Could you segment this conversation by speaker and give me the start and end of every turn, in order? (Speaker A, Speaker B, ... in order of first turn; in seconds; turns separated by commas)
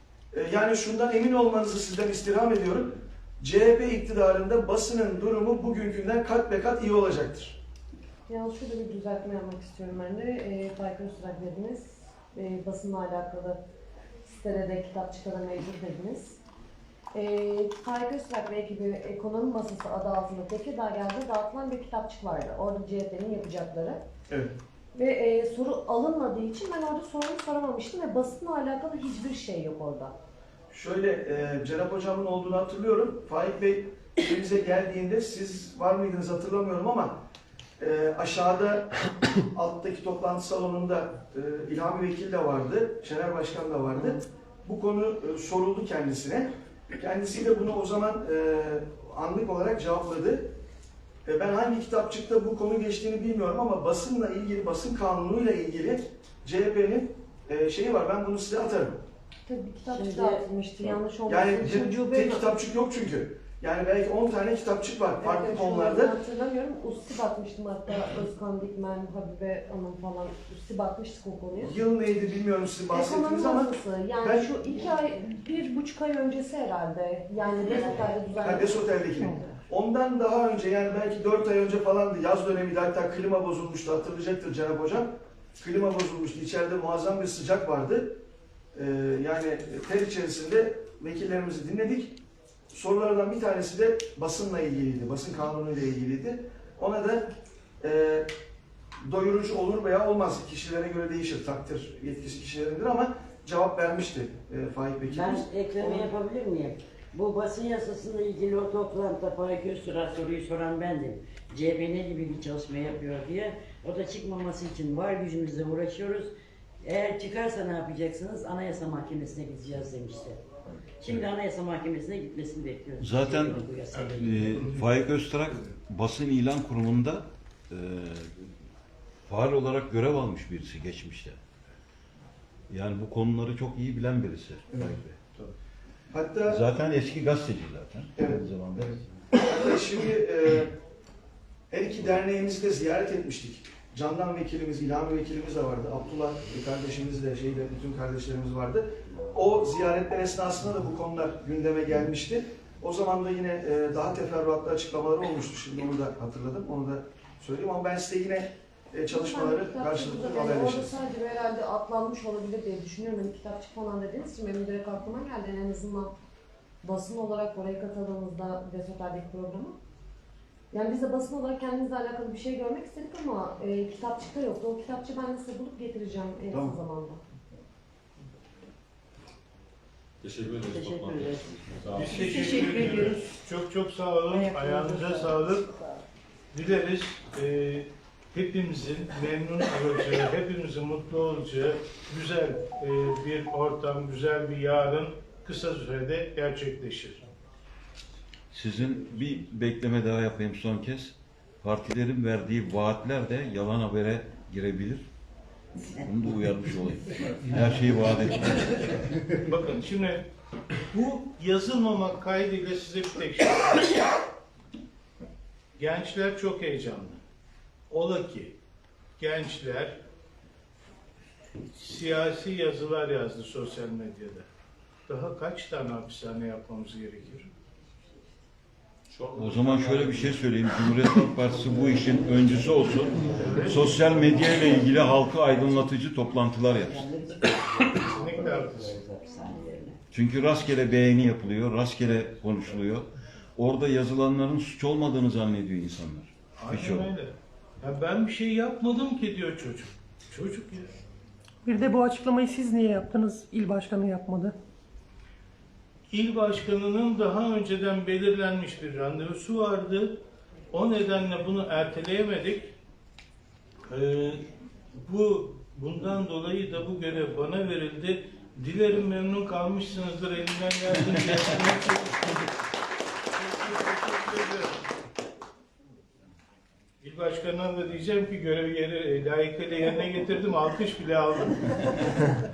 Speaker A: 0.3-7.5, Speaker B: 8.3-13.6, Speaker B: 14.2-16.4, Speaker B: 17.1-24.0, Speaker B: 24.9-30.1, Speaker A: 30.7-37.1, Speaker A: 37.8-38.9, Speaker A: 39.5-50.5, Speaker A: 51.2-59.0, Speaker B: 59.4-62.5, Speaker C: 59.8-61.0, Speaker A: 61.2-66.1, Speaker B: 65.2-71.7, Speaker A: 71.6-74.5, Speaker B: 72.9-79.0, Speaker A: 78.4-88.2, Speaker A: 88.7-92.2, Speaker A: 92.7-97.3, Speaker A: 97.8-98.3, Speaker A: 99.0-106.1, Speaker C: 105.0-120.4, Speaker C: 121.0-124.8, Speaker D: 123.0-128.3, Speaker D: 129.3-131.4, Speaker D: 132.7-135.2, Speaker A: 136.1-136.6, Speaker D: 136.5-139.0, Speaker A: 139.3-140.7, Speaker A: 141.7-161.0, Speaker B: 159.1-166.1, Speaker B: 166.8-169.8, Speaker B: 170.7-177.2, Speaker E: 180.2-182.2, Speaker C: 180.5-182.1, Speaker F: 181.9-185.7, Speaker G: 182.1-183.2, Speaker G: 184.3-186.0, Speaker F: 186.5-197.2, Speaker D: 198.5-205.1, Speaker D: 205.8-209.1, Speaker F: 209.4-210.2, Speaker F: 210.9-213.9, Speaker F: 215.8-217.2, Speaker F: 217.9-218.6, Speaker F: 219.2-220.0, Speaker F: 221.7-224.5, Speaker F: 225.1-227.5, Speaker E: 229.1-230.4, Speaker D: 229.3-237.0, Speaker F: 233.4-233.8, Speaker C: 233.9-234.8, Speaker C: 235.3-235.9, Speaker C: 236.8-240.0, Speaker F: 238.1-239.0, Speaker D: 240.1-247.1, Speaker F: 246.6-250.9, Speaker G: 251.6-254.6, Speaker F: 256.1-260.1, Speaker F: 260.7-262.7, Speaker F: 263.9-264.4, Speaker F: 264.9-272.4, Speaker F: 273.4-274.8, Speaker F: 277.0-281.8